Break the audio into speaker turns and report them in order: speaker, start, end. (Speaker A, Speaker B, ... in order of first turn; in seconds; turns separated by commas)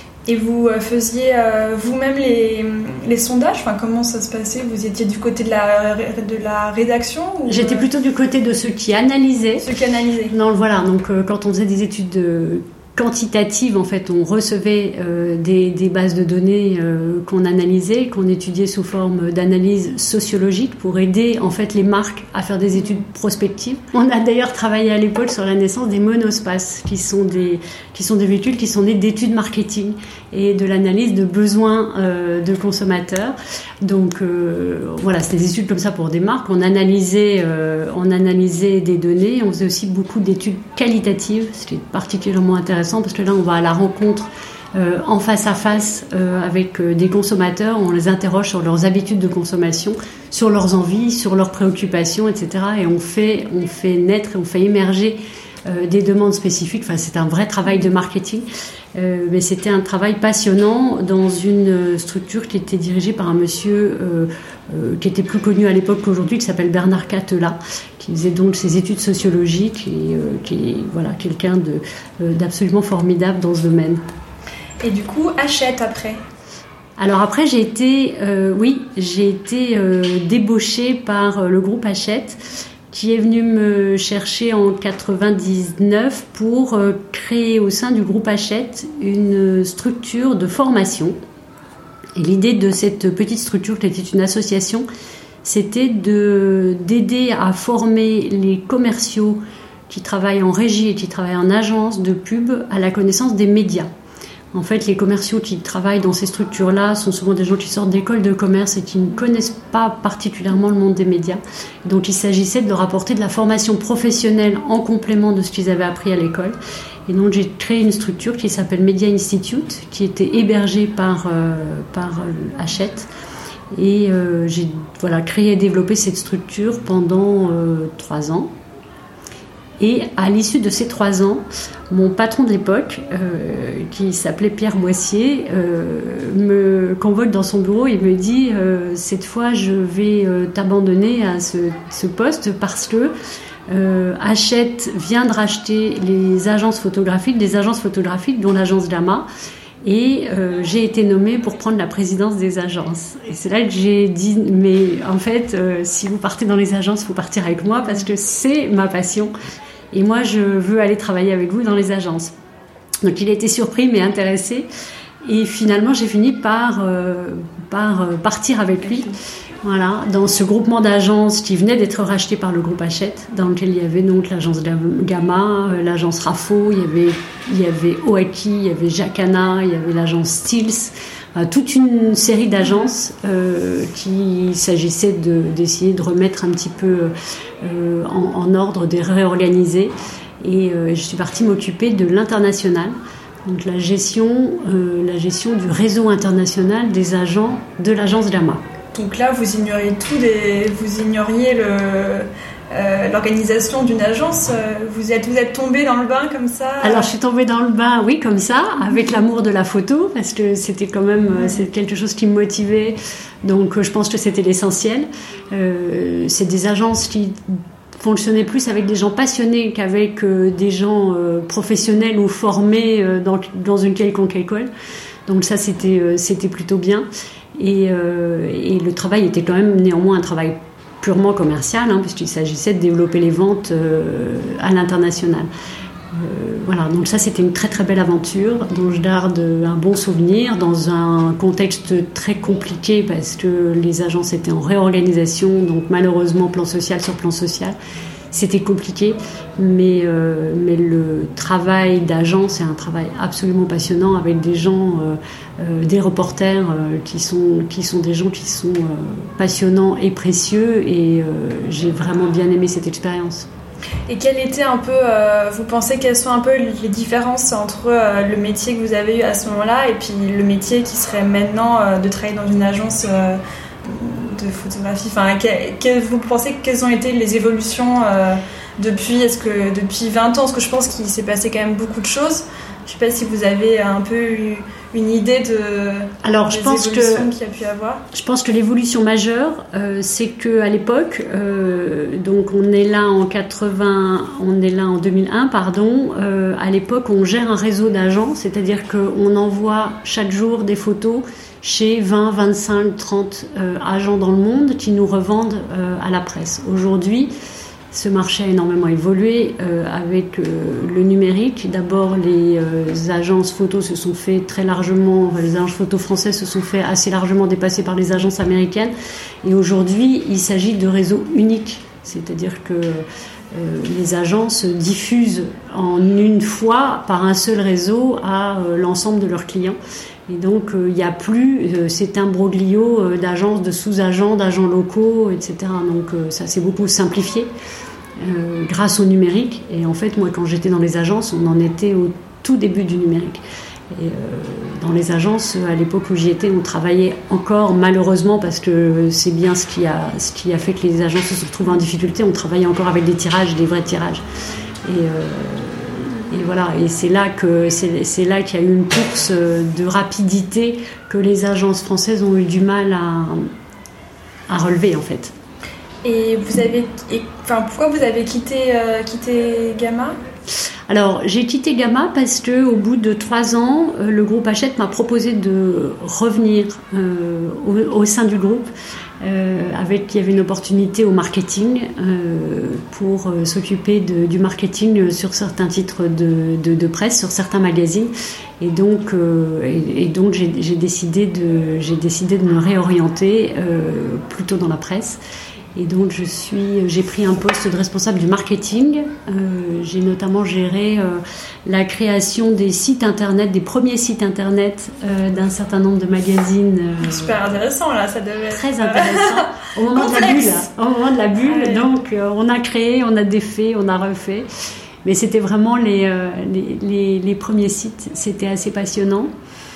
Speaker A: 0.2-7.9, Speaker B: 7.5-9.7, Speaker A: 9.6-10.3, Speaker B: 10.3-74.0, Speaker A: 74.8-76.2, Speaker B: 77.0-82.4, Speaker B: 82.9-91.2, Speaker B: 92.2-94.8, Speaker B: 95.4-103.9, Speaker B: 104.5-123.1, Speaker B: 123.7-128.5, Speaker B: 129.8-143.1, Speaker B: 143.7-149.3, Speaker B: 149.8-159.3, Speaker B: 159.9-162.3, Speaker B: 163.0-164.7, Speaker B: 165.2-198.6, Speaker A: 198.9-207.1, Speaker B: 206.8-224.7, Speaker B: 225.2-235.5, Speaker B: 236.1-247.8, Speaker B: 248.3-263.5, Speaker A: 264.1-288.0, Speaker B: 286.2-287.3, Speaker B: 288.1-307.3, Speaker B: 307.9-318.9, Speaker B: 319.4-329.8, Speaker B: 330.3-337.5, Speaker B: 338.2-354.2, Speaker B: 354.8-363.5, Speaker B: 364.5-365.3, Speaker A: 366.0-370.2, Speaker B: 370.9-378.7, Speaker B: 379.2-395.2, Speaker B: 395.7-407.4, Speaker A: 407.0-410.7, Speaker B: 408.5-414.5, Speaker A: 411.4-411.9, Speaker B: 415.0-419.3